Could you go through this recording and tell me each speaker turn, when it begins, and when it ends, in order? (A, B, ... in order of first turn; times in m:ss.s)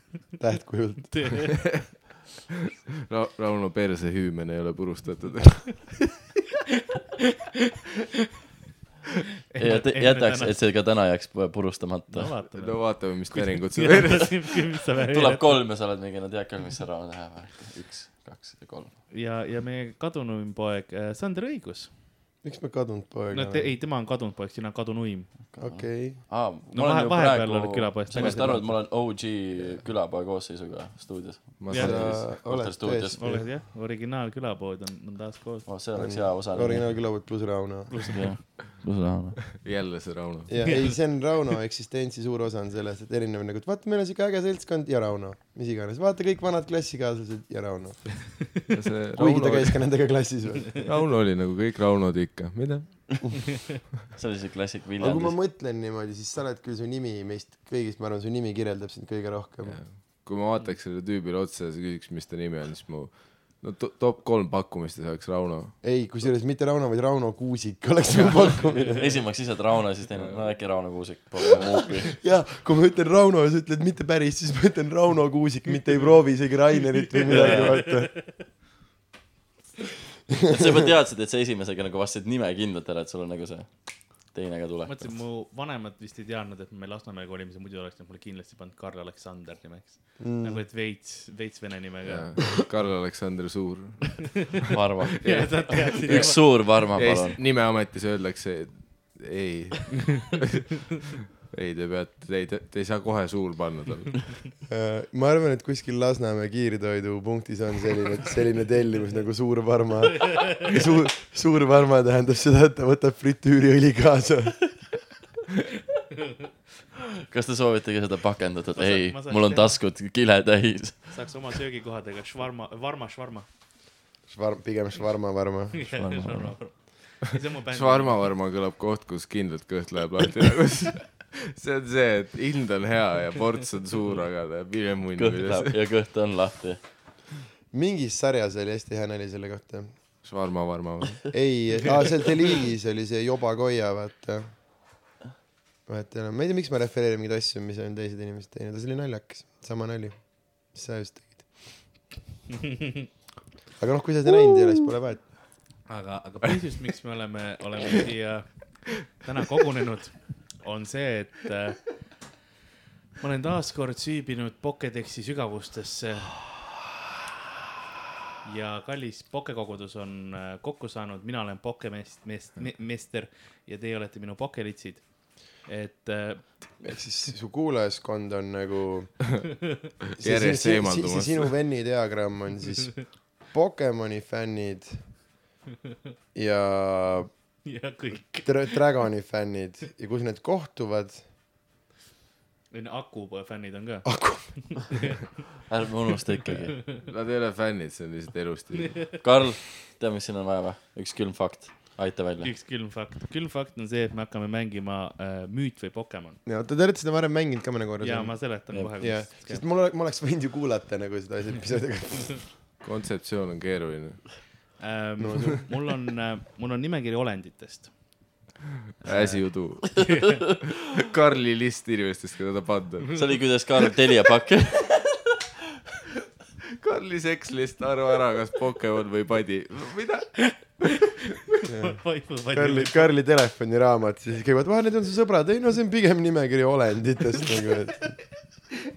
0:00.4-0:01.4 A
0:01.1-0:01.7 B
0:03.1-0:06.0 C
0:09.5-0:10.6 B
0:09.6-0:12.4 D
0:12.1-0:15.6 B
0:12.5-0:14.4 C
0:15.1-0:19.0 D
0:19.1-0:21.9 B
0:22.4-0:23.7 A
0:23.3-0:25.3 B
0:25.5-0:33.4 D
0:25.6-0:26.2 A
0:26.7-0:28.6 B
0:28.2-0:28.6 A
0:31.6-0:32.2 C
0:31.7-0:32.0 B
0:31.7-0:33.5 A
0:33.1-0:35.7 B
0:35.6-0:37.0 D
0:35.9-0:38.3 A
0:37.9-0:38.3 B
0:38.1-0:39.5 D
0:39.5-0:40.8 C
0:40.5-0:48.5 A
0:40.6-0:41.0 B
0:48.7-0:49.8 C
0:49.1-0:50.8 A
0:50.8-0:53.4 C
0:54.2-0:55.4 D
0:55.0-0:59.8 A
0:59.7-1:05.8 C
1:05.8-1:09.1 A
1:08.6-1:12.1 D
1:10.1-1:10.6 C
1:12.0-1:18.2 A
1:17.2-1:18.2 B
1:17.3-1:17.8 D
1:20.4-1:25.1 D
1:24.8-1:32.5 B
1:30.2-1:30.6 A
1:32.1-1:34.6 C
1:34.7-1:37.4 D
1:35.2-1:36.4 B
1:35.2-1:44.5 C
1:44.6-1:54.9 A
1:57.3-2:01.2 D
1:58.7-1:59.8 B
2:01.1-2:03.4 B
2:04.3-2:05.8 A
2:05.7-2:08.2 B
2:05.9-2:06.6 D
2:07.7-2:15.7 C
2:15.2-2:16.8 D
2:17.7-2:19.9 A
2:20.2-2:21.3 C
2:21.3-2:24.5 A
2:25.9-2:31.5 A
2:33.8-2:35.2 A
2:35.9-2:41.8 B
2:43.2-2:46.5 B
2:48.4-2:56.5 B
2:56.8-2:59.2 A
3:00.2-3:01.5 C
3:00.2-3:05.0 A
3:06.3-3:07.3 A
3:07.6-3:08.8 B
3:08.4-3:11.2 A
3:12.7-3:15.2 B
3:14.0-3:14.9 A
3:15.7-3:16.8 D
3:16.9-3:19.2 C
3:19.2-3:22.5 D
3:22.4-3:26.4 B
3:26.4-3:32.5 A
3:28.0-3:29.6 B
3:32.8-3:34.4 C
3:34.8-3:37.9 B
3:35.2-3:35.6 A
3:39.0-3:40.1 B
3:39.0-3:43.3 C
3:43.1-3:45.4 D
3:46.8-3:50.6 C
3:50.4-3:53.1 B
3:51.6-3:52.0 A
3:52.5-3:58.2 A